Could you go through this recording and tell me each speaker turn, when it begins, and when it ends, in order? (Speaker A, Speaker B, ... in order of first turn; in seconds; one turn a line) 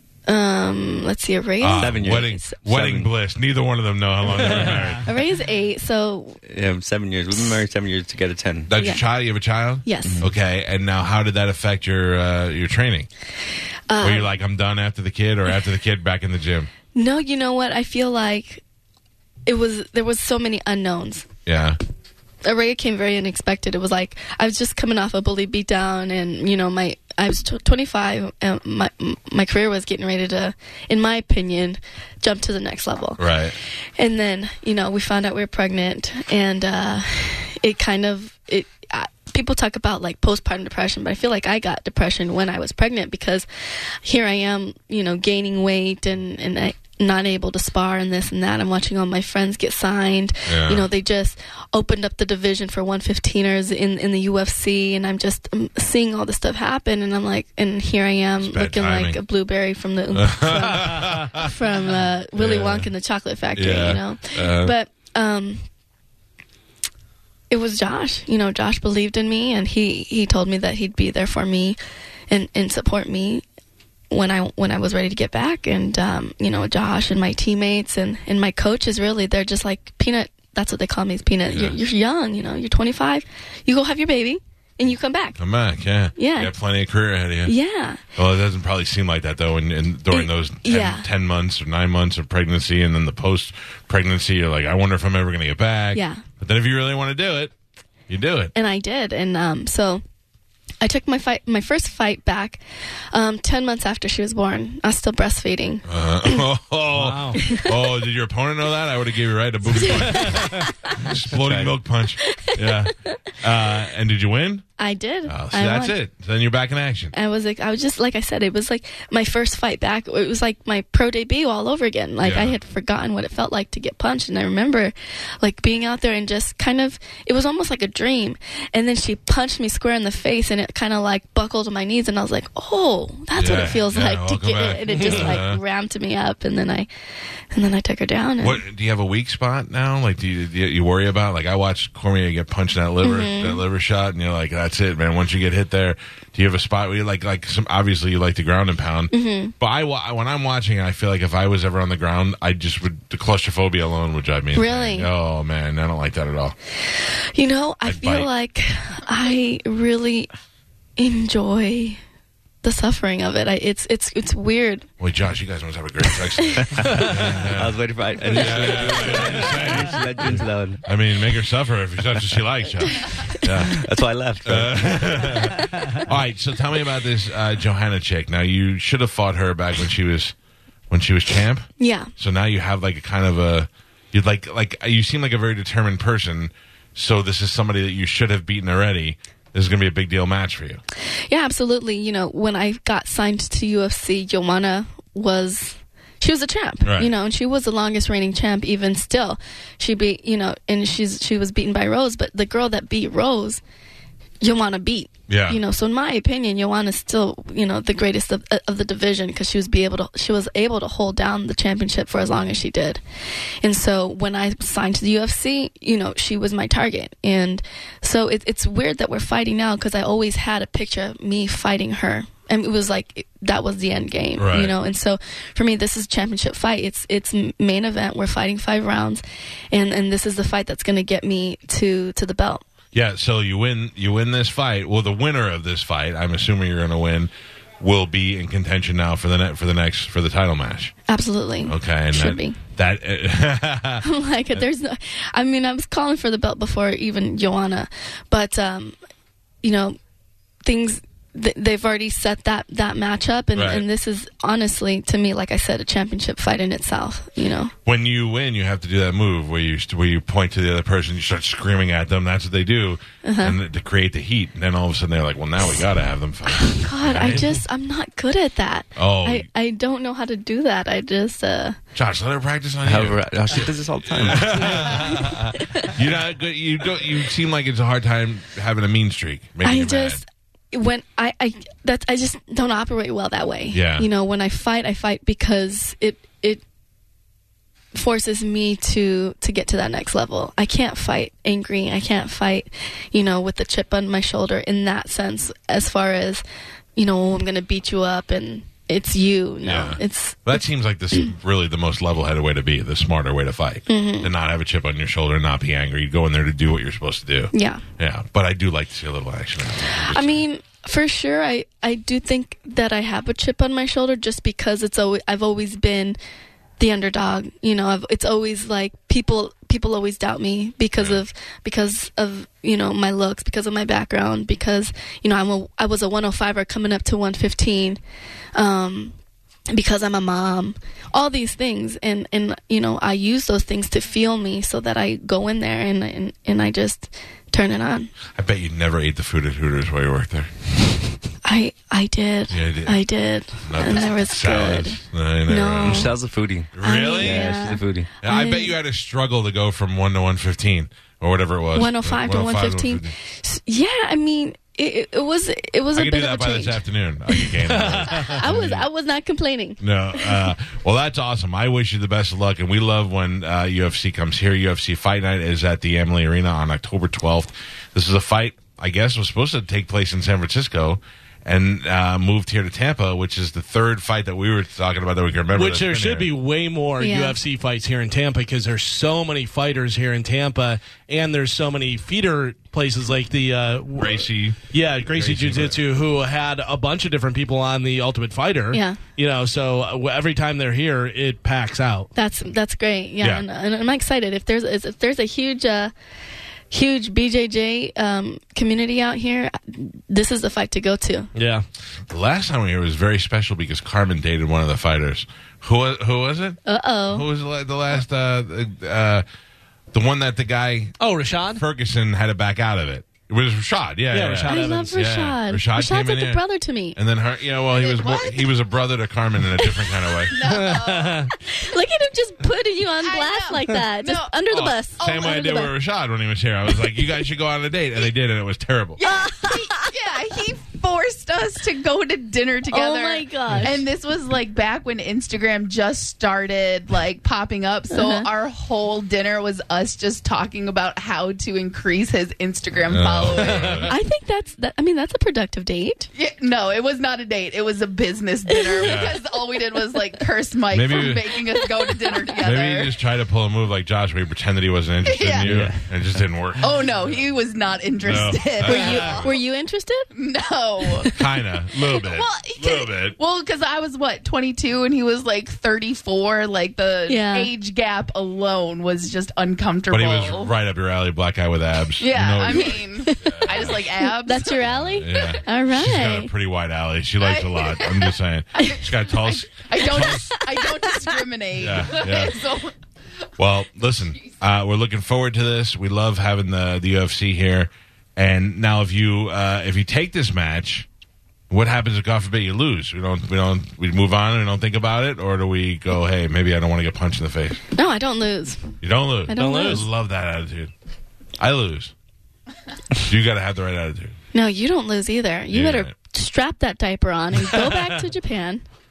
Speaker A: 0.3-2.5
Speaker B: 1.6-5.1
Speaker C: 1.8-3.1
Speaker D: 4.3-4.8
Speaker A: 5.0-6.4
Speaker C: 6.5-8.7
Speaker B: 8.7-13.1
Speaker A: 8.8-9.0
Speaker A: 9.8-10.2
Speaker C: 10.0-10.3
Speaker A: 13.9-14.3
Speaker B: 14.0-16.7
Speaker A: 16.9-18.6
Speaker A: 19.4-21.3
Speaker B: 21.4-21.8
Speaker A: 22.4-33.2
Speaker B: 33.2-33.5
Speaker A: 34.0-65.6
Speaker B: 50.5-50.9
Speaker B: 58.4-59.2
Speaker B: 60.1-61.5
Speaker B: 62.4-62.9
Speaker B: 63.5-64.7
Speaker A: 67.5-71.8
Speaker A: 72.3-73.4
Speaker A: 74.1-85.4
Speaker B: 81.5-81.8
Speaker B: 85.4-87.5
Speaker A: 86.2-86.5
Speaker A: 87.5-88.0
Speaker B: 88.2-97.5
Speaker A: 90.1-91.1
Speaker A: 95.9-96.2
Speaker B: 98.1-98.5
Speaker A: 98.5-100.0
Speaker A: 100.8-102.6
Speaker A: 103.1-106.4
Speaker B: 105.9-114.7
Speaker D: 106.9-107.4
Speaker A: 107.4-107.8
Speaker A: 109.7-111.0
Speaker C: 111.2-111.8
Speaker A: 112.2-112.9
Speaker A: 114.8-116.0
Speaker B: 115.3-117.1
Speaker A: 117.1-136.9
Speaker B: 122.2-122.5
Speaker B: 133.3-135.6
Speaker D: 135.0-135.3
Speaker A: 137.5-138.6
Speaker B: 138.4-156.6
Speaker A: 143.0-143.6
Speaker A: 149.1-149.5
Speaker A: 154.5-155.1
Speaker A: 156.8-160.3
Speaker B: 157.8-158.3
Speaker A: 161.0-162.0
Speaker A: 162.6-164.9
Speaker B: 165.0-173.8
Speaker C: 166.6-170.8
Speaker C: 173.4-176.0
Speaker B: 174.4-180.3
Speaker B: 180.9-190.8
Speaker A: 181.8-182.1
Speaker A: 191.3-203.6
Speaker B: 196.8-197.1
Speaker A: 204.4-213.0
Speaker B: 205.3-205.6
Speaker A: 213.6-232.6
Speaker B: 224.4-224.7
Speaker B: 232.9-240.9
Speaker A: 241.1-242.6
Speaker B: 241.7-244.6
Speaker A: 244.0-248.9
Speaker A: 249.6-250.0
Speaker A: 250.6-257.7
Speaker B: 253.5-253.8
Speaker B: 257.9-267.6
Speaker A: 263.2-263.6
Speaker A: 266.5-271.8
Speaker B: 269.0-269.5
Speaker B: 271.9-280.2
Speaker C: 272.8-275.2
Speaker A: 274.8-275.9
Speaker A: 279.6-286.6
Speaker B: 283.7-284.1
Speaker A: 287.9-296.4
Speaker A: 296.9-300.6
Speaker B: 299.6-310.4
Speaker A: 303.9-304.3
Speaker A: 307.5-307.8
Speaker A: 309.9-316.2
Speaker A: 316.8-328.0
Speaker B: 321.0-321.2
Speaker A: 328.5-329.1
Speaker A: 329.7-338.1
Speaker B: 338.4-340.9
Speaker A: 341.4-346.1
Speaker B: 342.5-343.0
Speaker B: 343.6-346.1
Speaker C: 345.8-348.1
Speaker B: 346.7-347.6
Speaker A: 346.8-348.8
Speaker B: 348.2-353.1
Speaker A: 351.7-360.5
Speaker B: 355.9-358.8
Speaker D: 357.8-358.3
Speaker B: 359.8-376.3
Speaker D: 375.5-392.1
Speaker A: 377.0-377.4
Speaker B: 384.0-385.8
Speaker A: 388.7-389.0
Speaker A: 392.1-395.9
Speaker B: 393.2-393.4
Speaker A: 396.7-401.3
Speaker D: 401.3-401.6
Speaker B: 402.1-409.2
Speaker A: 406.6-407.3
Speaker B: 409.9-410.9
Speaker D: 411.0-411.6
Speaker B: 411.6-416.4
Speaker D: 414.1-414.9
Speaker A: 414.5-417.0
Speaker B: 416.9-420.4
Speaker E: 417.7-418.5
Speaker A: 419.6-419.9
Speaker E: 420.3-421.3
Speaker D: 420.4-421.3
Speaker A: 421.3-425.7
Speaker E: 422.9-424.4
Speaker B: 424.5-429.0
Speaker E: 425.1-425.3
Speaker E: 429.0-443.9
Speaker A: 429.0-429.9
Speaker A: 432.7-433.8
Speaker A: 437.9-438.3
Speaker B: 442.9-443.9
Speaker A: 443.9-446.1
Speaker E: 446.1-453.0
Speaker A: 448.5-449.0
Speaker B: 448.8-449.2
Speaker B: 450.7-451.3
Speaker B: 452.4-457.2
Speaker E: 455.0-455.5
Speaker D: 455.4-455.7
Speaker E: 456.6-459.3
Speaker B: 458.0-459.3
Speaker A: 458.6-460.1
Speaker E: 460.1-461.2
Speaker B: 461.1-463.2
Speaker E: 461.8-470.5
Speaker A: 467.1-467.5
Speaker B: 469.9-473.8
Speaker E: 472.0-474.7
Speaker A: 473.0-476.3
Speaker B: 474.7-480.4
Speaker E: 477.2-482.7
Speaker B: 481.6-482.4
Speaker B: 483.4-490.9
Speaker B: 491.5-497.6
Speaker A: 497.7-499.9
Speaker B: 498.8-500.7
Speaker D: 499.4-499.9
Speaker B: 501.4-501.9
Speaker B: 503.0-504.1
Speaker A: 504.3-508.6
Speaker B: 505.5-505.9